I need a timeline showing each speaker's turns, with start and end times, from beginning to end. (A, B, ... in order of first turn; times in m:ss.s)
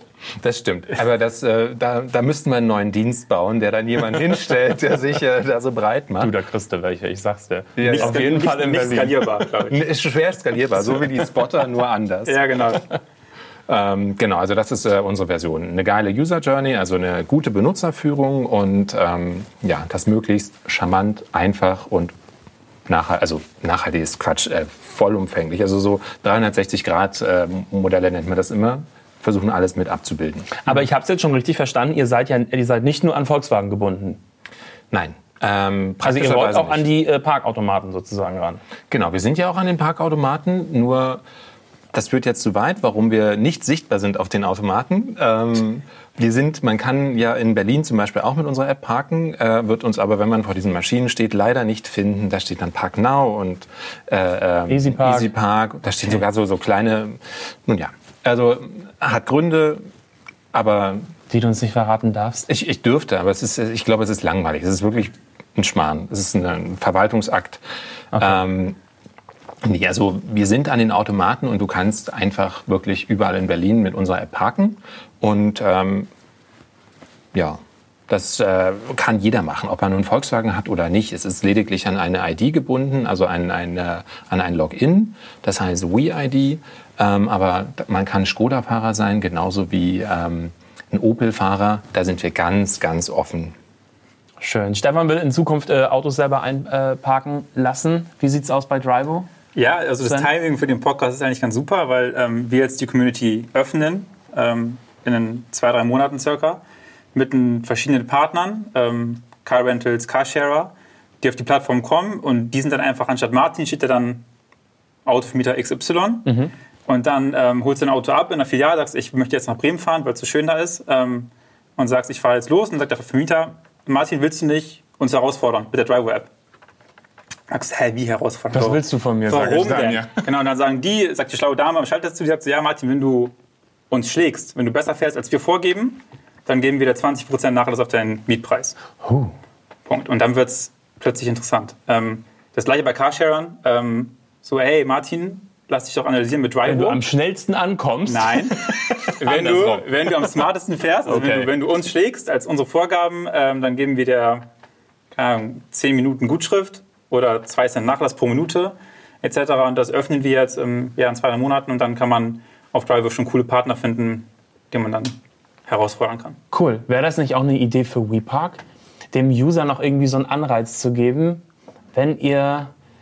0:00.4-0:06.3 A
0:06.2-0:09.2 B
0:07.8-0:08.3 A
0:07.8-0:09.8 C
0:09.7-0:12.8 A
0:12.3-0:12.8 C
0:13.7-0:22.1 A
0:22.9-0:30.7 A
0:30.6-0:34.2 B
0:34.9-0:36.9 A
0:36.0-0:38.6 B
0:38.9-0:41.2 A
0:41.9-0:59.8 A
0:54.7-0:55.3 B
1:00.5-1:01.1 A
1:01.3-1:02.5 B
1:02.5-1:07.6 A
1:08.1-1:08.4 B
1:08.1-1:08.8 A
1:09.6-1:16.1 A
1:17.3-1:33.5 A
1:34.4-1:39.3 B
1:39.5-1:46.6 C
1:40.0-1:40.3 B
1:47.1-1:54.2 C
1:55.0-1:56.4 C
1:56.2-1:56.5 B
1:56.9-2:06.3 C
2:07.5-2:13.3 C
2:08.5-2:10.2 B
2:13.9-2:18.8 C
2:19.0-2:19.3 B
2:19.8-2:27.0 C
2:26.6-2:29.9 B
2:28.0-2:34.5 C
2:31.0-2:31.5 B
2:35.1-2:46.4 C
2:46.5-2:48.6 B
2:49.1-2:52.7 B